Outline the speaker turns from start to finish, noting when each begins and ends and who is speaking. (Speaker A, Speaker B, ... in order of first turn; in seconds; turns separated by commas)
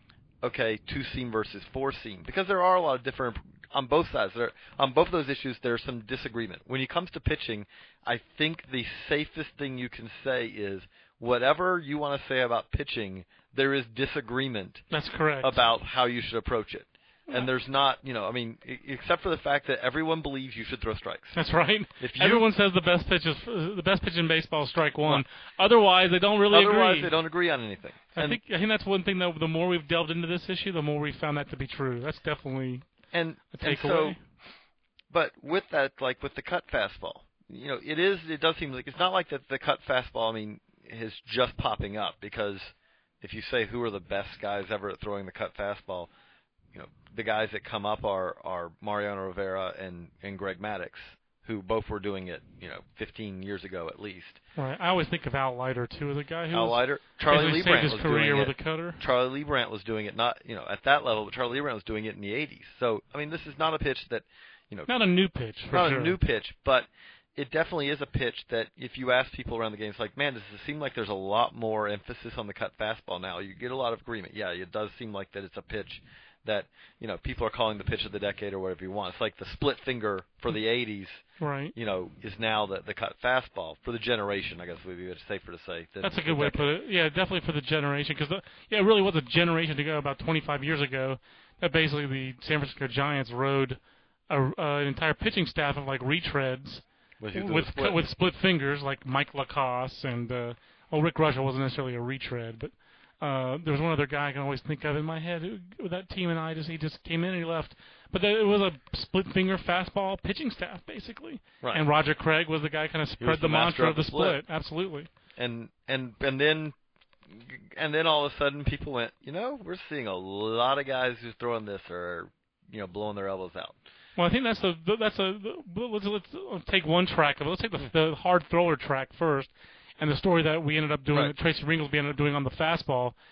Speaker A: 0.4-14.8, Speaker B: 14.9-15.6, Speaker A: 15.4-21.4, Speaker B: 21.3-27.1, Speaker A: 22.0-22.5, Speaker A: 26.5-28.4, Speaker B: 28.2-32.9, Speaker A: 33.1-34.2, Speaker B: 33.5-34.2, Speaker A: 35.1-46.1, Speaker A: 46.7-54.4, Speaker B: 54.6-59.0, Speaker A: 56.5-64.9, Speaker B: 64.9-66.2, Speaker A: 65.7-81.2, Speaker B: 81.4-81.8, Speaker A: 81.8-86.7, Speaker B: 86.0-96.8, Speaker A: 97.2-98.0, Speaker B: 97.3-115.1, Speaker A: 113.2-114.4, Speaker A: 115.4-116.7, Speaker A: 117.3-123.8, Speaker B: 124.2-133.2